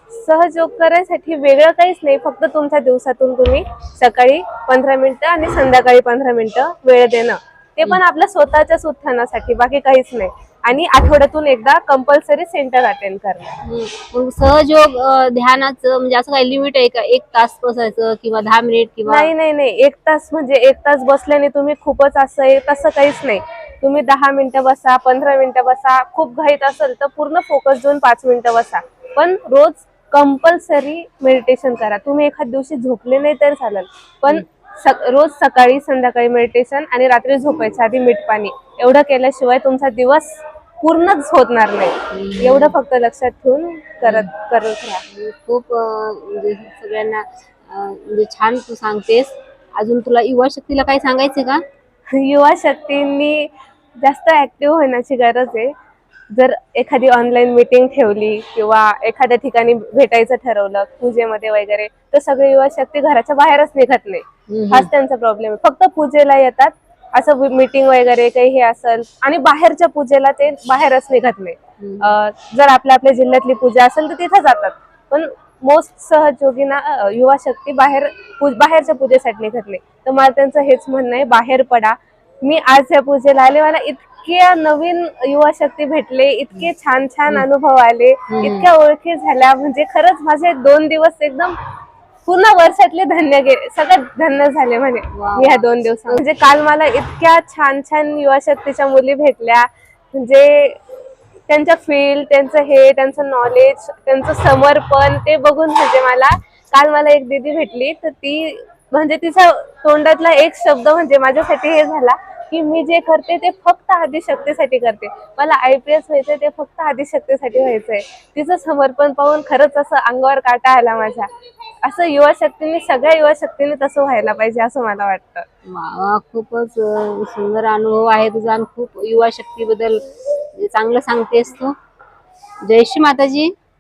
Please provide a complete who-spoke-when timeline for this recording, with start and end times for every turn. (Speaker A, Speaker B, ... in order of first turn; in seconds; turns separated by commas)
Speaker A: 0.1-13.6, Speaker B: 13.6-19.3, Speaker A: 19.1-45.0, Speaker B: 42.1-42.8, Speaker B: 45.1-51.6, Speaker A: 52.2-53.5, Speaker A: 54.0-55.7, Speaker A: 56.3-91.5, Speaker B: 64.5-64.9, Speaker B: 71.8-72.1, Speaker B: 88.3-88.7, Speaker A: 92.3-100.8, Speaker B: 95.1-96.2, Speaker A: 101.5-121.3, Speaker A: 121.8-125.5, Speaker B: 125.7-130.0, Speaker B: 130.6-131.7, Speaker B: 132.7-133.5